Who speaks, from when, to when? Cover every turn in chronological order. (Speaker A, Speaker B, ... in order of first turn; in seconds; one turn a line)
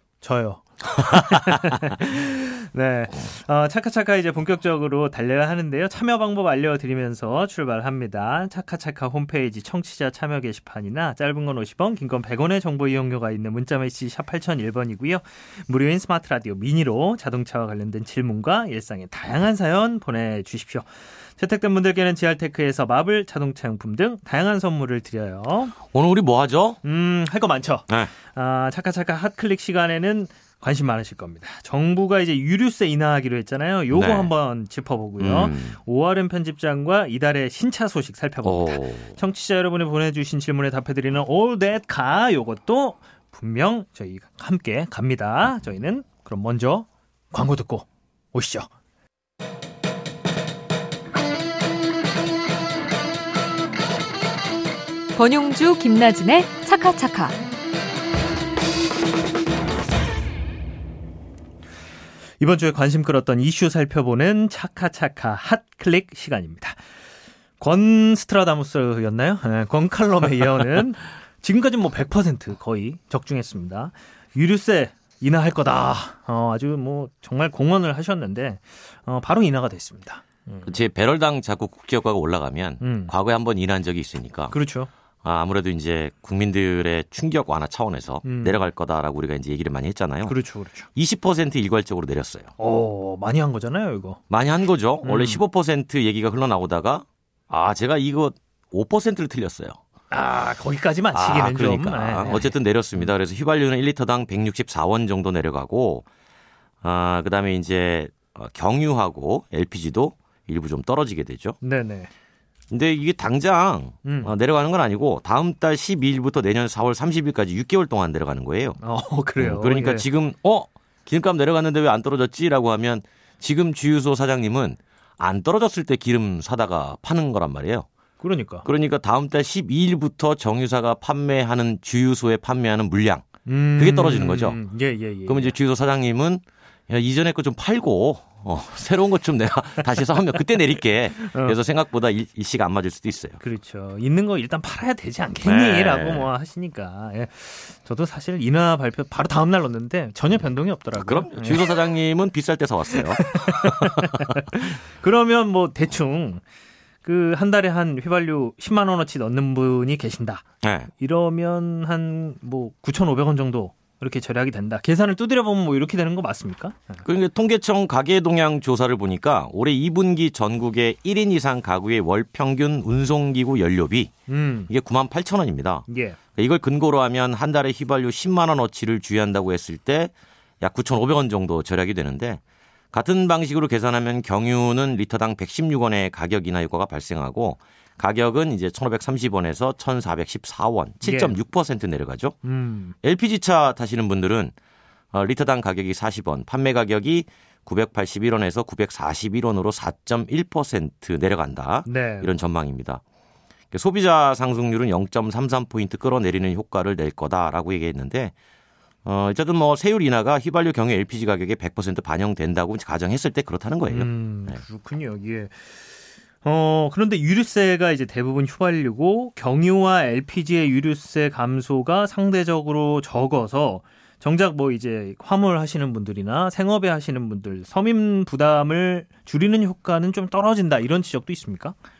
Speaker A: 0.2-25.8
Speaker B: 1.0-1.9
Speaker B: 25.9-26.8
Speaker A: 26.8-48.7
Speaker B: 33.9-34.3
Speaker B: 35.2-35.7
Speaker B: 38.4-39.1
Speaker C: 55.1-57.3
Speaker A: 62.4-66.8
Speaker A: 67.6-80.7
Speaker B: 80.6-84.5
Speaker A: 82.8-83.1
Speaker A: 84.5-84.9
Speaker B: 85.2-90.4
Speaker A: 88.2-88.6
Speaker A: 90.2-90.9
Speaker B: 91.0-92.5
Speaker A: 92.6-94.2
Speaker B: 94.3-99.8
Speaker A: 95.0-95.4
Speaker A: 100.1-102.5
Speaker B: 101.1-106.1
Speaker B: 106.8-111.6
Speaker A: 111.6-112.1
Speaker B: 112.7-118.8
Speaker A: 114.0-114.3
Speaker A: 118.8-120.1
Speaker B: 119.4-127.9
Speaker A: 128.2-128.7
Speaker B: 128.6-134.6
Speaker A: 133.4-135.5
Speaker B: 135.3-143.4
Speaker A: 141.2-141.6
Speaker A: 143.4-151.8
Speaker B: 145.4-146.3
Speaker B: 150.9-154.4
Speaker A: 153.0-156.4
Speaker A: 157.0-167.0
Speaker B: 160.6-160.9
Speaker B: 167.0-174.1
Speaker A: 174.3-174.7
Speaker B: 174.7-182.4
Speaker A: 175.9-176.2
Speaker B: 182.9-192.3
Speaker A: 191.0-191.4
Speaker A: 192.4-192.9
Speaker B: 193.0-194.5
Speaker B: 195.1-203.0
Speaker A: 201.8-202.3
Speaker B: 203.7-208.3
Speaker B: 209.0-214.6
Speaker A: 213.9-215.8
Speaker A: 216.4-231.7